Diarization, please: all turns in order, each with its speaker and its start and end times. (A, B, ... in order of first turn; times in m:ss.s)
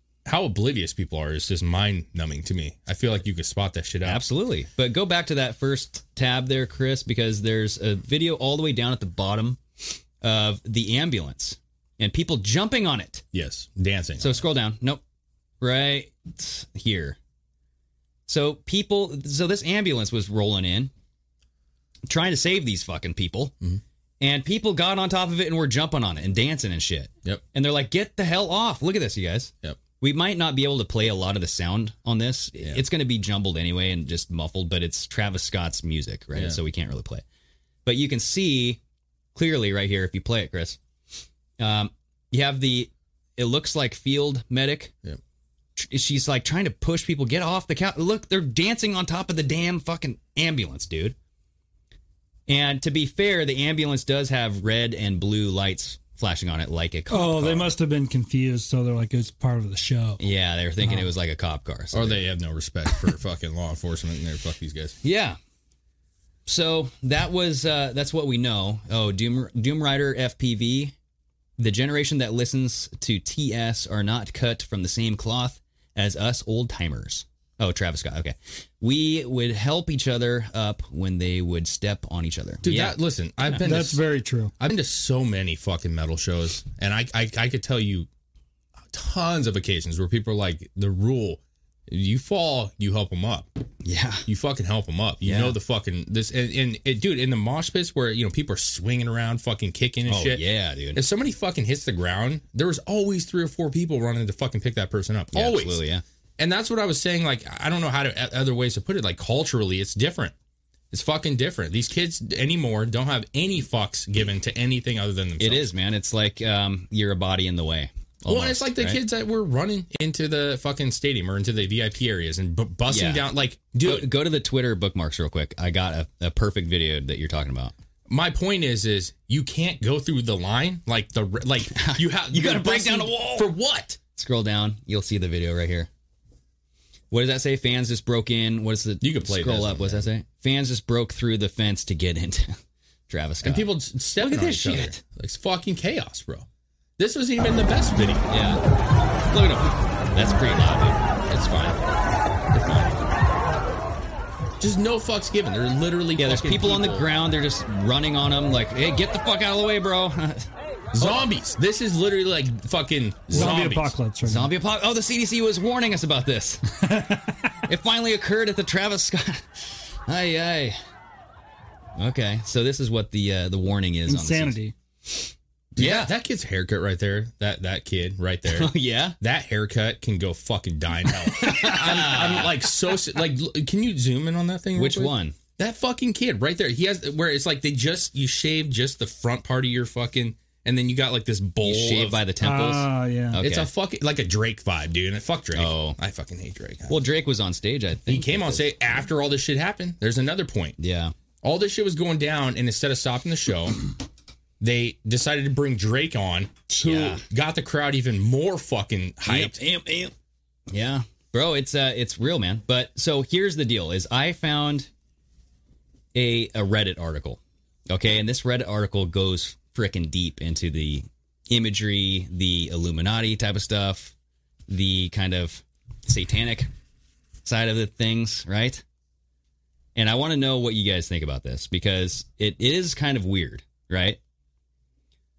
0:00.2-0:04.2 A
0:04.0-0:09.6 B
0:10.2-0:13.2 B
0:13.3-0:14.4 A
0:14.2-0:15.0 B
0:15.6-0:17.2 B
0:18.3-0:20.9 B
0:22.1-0:23.5 B
0:24.2-0:37.2 B
0:37.8-0:38.8 B
0:39.3-0:40.8 B
0:41.6-0:44.9 B
0:45.8-0:51.2 B
0:52.5-0:57.7 B
0:57.1-1:00.2 C
1:00.2-1:02.2 B
1:00.8-1:01.1 C
1:01.9-1:05.0 A
1:05.0-1:05.4 B
1:06.4-1:10.9 B
1:11.6-1:23.6 B
1:22.6-1:24.0 A
1:23.6-1:24.5 C
1:24.6-1:28.1 A
1:28.9-1:33.5 A
1:33.8-1:34.3 B
1:34.2-1:40.4 A
1:35.2-1:35.6 B
1:40.1-1:41.0 B
1:40.9-1:45.8 A
1:45.3-1:46.0 B
1:46.4-1:50.3 A
1:50.9-1:55.7 A
1:55.4-1:59.0 B
1:58.3-2:04.1 A
2:02.9-2:03.3 B
2:03.8-2:07.7 B
2:08.1-2:14.0 A
2:11.7-2:13.5 B
2:14.1-2:15.9 B
2:17.1-2:22.6 B
2:19.0-2:20.0 A
2:23.1-2:25.0 B
2:23.4-2:26.5 A
2:27.0-2:28.3 A
2:28.3-2:28.6 B
2:29.3-2:31.8 B
2:31.3-2:31.8 A
2:32.5-2:33.0 B
2:34.6-2:37.1 A
2:36.2-2:41.2 B
2:40.9-2:44.0 A
2:43.3-2:44.5 C
2:44.2-2:46.7 B
2:46.8-2:47.4 C
2:47.6-2:50.8 B
2:52.0-2:54.6 B
2:54.1-2:54.7 C
2:55.1-2:56.1 B
2:55.8-3:12.2 A
2:58.5-2:59.2 B
3:01.2-3:02.7 B
3:04.8-3:05.4 B
3:11.6-3:13.7 B
3:12.4-3:13.4 C
3:13.4-3:17.0 A
3:15.5-3:16.0 B
3:16.9-3:18.6 B
3:18.1-3:20.8 A
3:20.8-3:21.1 B
3:21.4-3:23.8 A
3:24.6-3:29.6 A
3:26.8-3:27.2 B
3:29.2-3:30.1 B
3:30.7-3:34.9 B
3:36.1-3:44.1 B
3:44.7-3:46.7 B
3:47.4-3:48.8 B
3:50.0-3:54.2 B